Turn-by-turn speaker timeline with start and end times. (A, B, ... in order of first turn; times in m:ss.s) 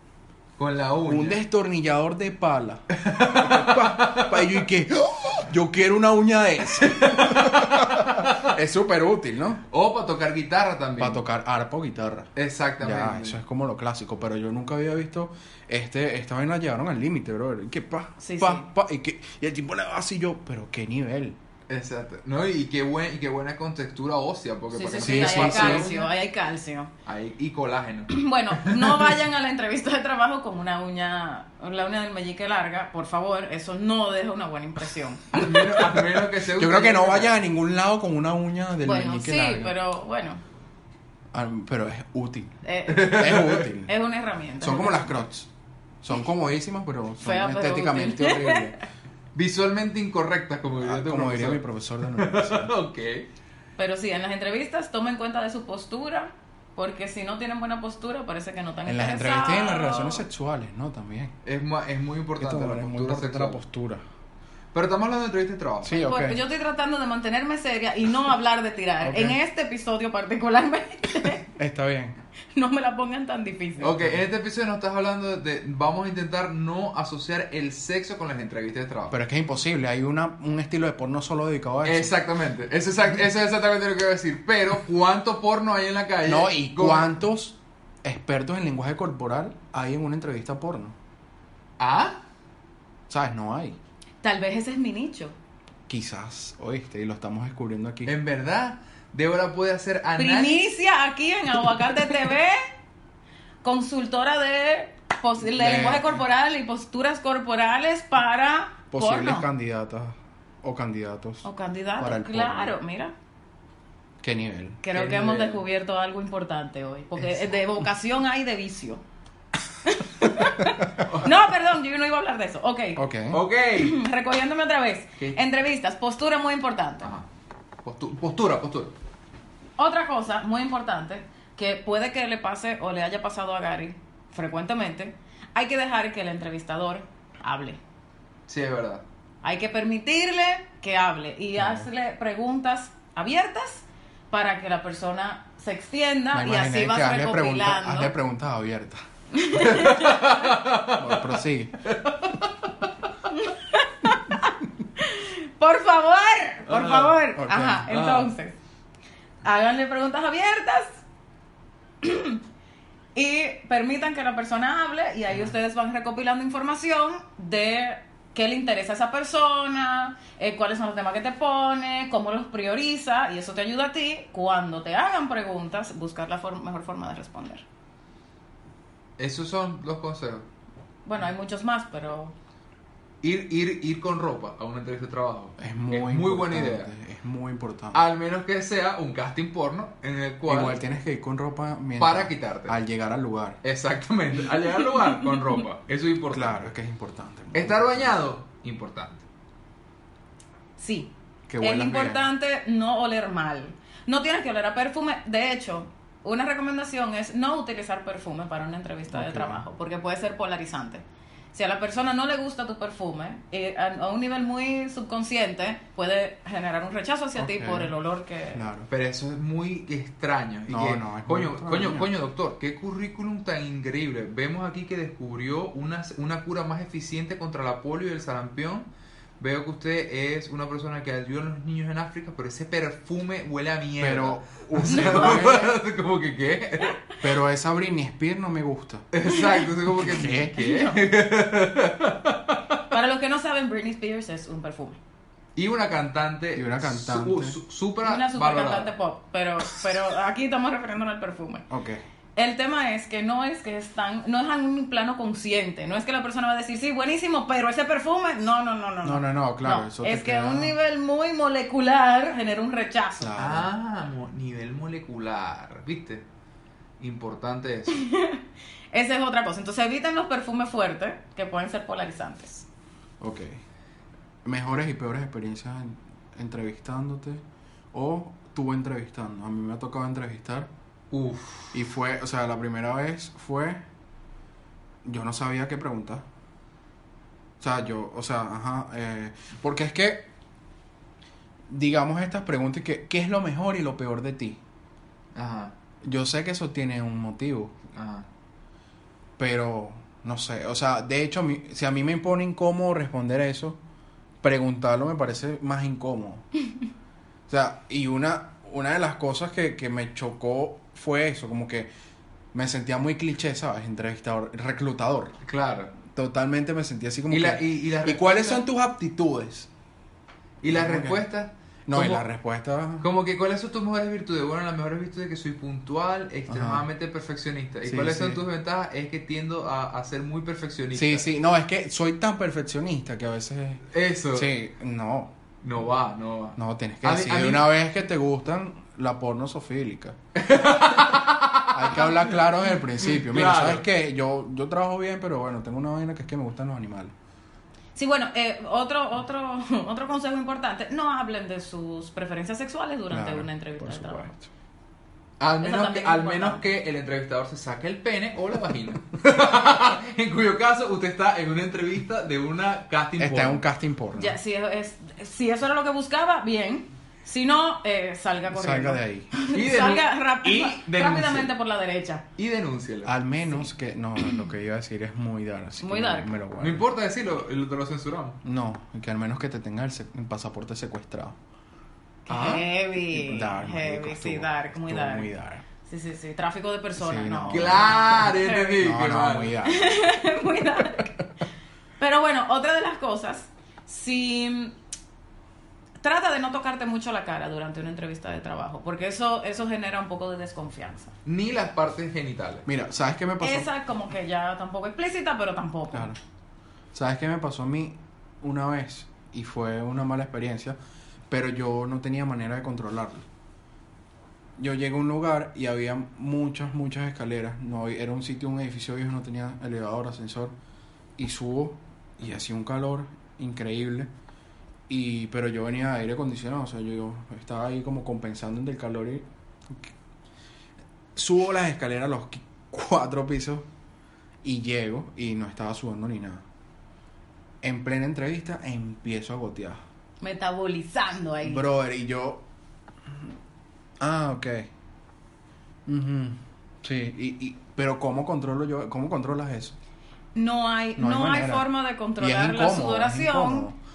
0:00.6-0:01.4 A
0:01.0-0:09.6 B
0:02.9-0:04.5 A
0:06.8-0:08.5 A
0:09.7-0:11.2 A
0:11.0-0:21.4 B
0:12.4-0:13.4 A
0:18.2-0:18.6 C
0:21.7-0:26.1 A
0:24.7-0:26.9 C
0:25.0-0:25.9 B
0:27.0-0:29.2 A
0:28.1-0:35.9 C
0:35.3-0:37.4 A
0:35.8-0:39.7 B
0:38.8-0:40.4 C
0:41.3-0:43.9 B
0:42.6-0:45.1 C
0:42.9-0:43.6 A
0:44.6-0:45.5 B
0:46.0-0:48.7 B
0:47.2-0:48.8 C
0:49.3-0:53.2 A
0:50.8-0:52.7 B
0:53.8-1:00.2 C
0:58.8-1:01.3 B
1:01.4-1:03.6 A
1:02.4-1:04.0 B
1:04.7-1:06.0 A
1:05.8-1:06.4 B
1:05.9-1:11.5 C
1:09.0-1:09.4 B
1:11.6-1:12.2 B
1:12.5-1:14.0 C
1:13.8-1:19.1 A
1:19.1-1:22.1 B
1:21.8-1:27.2 A
1:26.2-1:30.9 B
1:31.8-1:32.2 A
1:33.1-1:33.8 B
1:34.2-1:35.3 C
1:35.9-1:38.1 B
1:38.0-1:40.7 A
1:40.2-1:42.6 C
1:43.6-1:49.5 C
1:45.4-1:46.2 B
1:48.9-1:51.5 B
1:51.4-1:53.1 C
1:52.0-1:52.8 B
1:54.2-1:54.8 B
1:54.8-1:59.0 C
1:54.9-1:55.6 A
1:59.8-2:03.0 C
2:01.0-2:01.3 A
2:03.0-2:03.4 B
2:03.3-2:04.0 A
2:03.7-2:07.1 C
2:07.8-2:08.9 A
2:09.8-2:17.8 C
2:18.5-2:19.0 A
2:19.4-2:28.1 C
2:21.6-2:21.9 B
2:26.3-2:29.0 B
2:29.3-2:30.4 C
2:29.6-2:32.5 A
2:30.9-2:31.9 B
2:33.3-2:38.5 C
2:36.7-2:37.2 A
2:37.4-2:37.9 B
2:37.9-2:38.3 A
2:39.4-2:41.0 C
2:42.0-2:42.4 C
2:43.1-2:57.6 C
2:59.2-3:00.4 A
3:01.0-3:02.3 C
3:03.2-3:06.9 A
3:05.6-3:08.0 B
3:07.9-3:10.8 A
3:10.5-3:13.6 B
3:12.0-3:12.8 A
3:13.6-3:16.7 A
3:16.3-3:18.2 B
3:17.5-3:19.2 A
3:20.8-3:38.6 C
3:21.5-3:22.2 B
3:29.1-3:29.6 B
3:37.4-3:37.9 B
3:38.5-3:38.9 B
3:38.9-3:48.9 A
3:40.7-3:42.1 B
3:49.4-3:57.0 A
3:54.0-3:55.8 B
3:54.8-3:55.7 C
3:57.2-3:59.1 B
3:59.1-4:02.8 A
3:59.3-3:59.7 C
3:59.9-4:00.5 B
4:00.5-4:01.0 C
4:02.9-4:05.0 C
4:05.6-4:08.9 A
4:06.5-4:07.6 B
4:08.0-4:11.7 C
4:11.7-4:12.0 B
4:12.4-4:23.4 C
4:19.0-4:20.7 B
4:23.2-4:23.7 B
4:23.4-4:26.2 A
4:27.0-4:28.0 A
4:27.9-4:32.7 C
4:33.2-4:33.6 B
4:34.4-4:40.7 B
4:41.1-4:41.7 A
4:41.7-4:43.8 B
4:45.0-4:46.2 B
4:47.6-4:50.3 B
4:51.7-4:54.6 B
4:55.3-4:55.7 A
4:56.0-4:57.8 B
4:57.9-4:58.3 A
4:59.4-5:03.8 B
5:04.4-5:06.4 B
5:07.5-5:11.9 B
5:12.5-5:15.4 B
5:15.4-5:15.9 A
5:16.0-5:19.7 B
5:17.3-5:18.6 A
5:20.6-5:22.2 A
5:20.6-5:21.2 B
5:21.9-5:23.1 B
5:23.0-5:31.2 A
5:26.5-5:26.8 B
5:27.8-5:28.4 B
5:30.9-5:35.3 B
5:33.9-5:34.5 A
5:35.6-5:37.7 A
5:36.6-5:40.2 B
5:40.4-5:42.4 A
5:41.7-5:47.1 B
5:43.0-5:43.8 A
5:47.9-5:54.3 C
5:53.1-5:54.5 B
5:55.4-6:03.6 A
5:55.6-5:56.6 C
6:03.2-6:04.4 B
6:04.1-6:12.2 C
6:08.5-6:09.3 B
6:09.5-6:11.5 A
6:12.4-6:13.2 A
6:13.0-6:16.8 B
6:15.8-6:16.3 C
6:16.6-6:18.4 A
6:18.4-6:21.4 B
6:22.2-6:25.3 C
6:22.3-6:25.6 B
6:25.8-6:28.8 C
6:27.0-6:29.9 B
6:27.5-6:29.5 A
6:29.6-6:31.2 C
6:32.0-6:34.7 C
6:36.0-6:41.1 C
6:41.2-6:42.7 A
6:42.6-6:43.7 B
6:43.4-6:46.1 C
6:45.9-6:46.2 B
6:46.9-6:50.8 B
6:51.3-6:53.2 B
6:54.6-7:00.5 B
7:01.2-7:04.1 B
7:04.9-7:09.9 B
7:11.2-7:13.6 B
7:14.4-7:16.4 B
7:17.6-7:19.8 B
7:20.2-7:21.6 C
7:21.4-7:22.4 B
7:23.1-7:23.3 B
7:24.0-7:24.7 B
7:25.8-7:29.8 B
7:30.3-7:33.7 C
7:31.0-7:33.8 B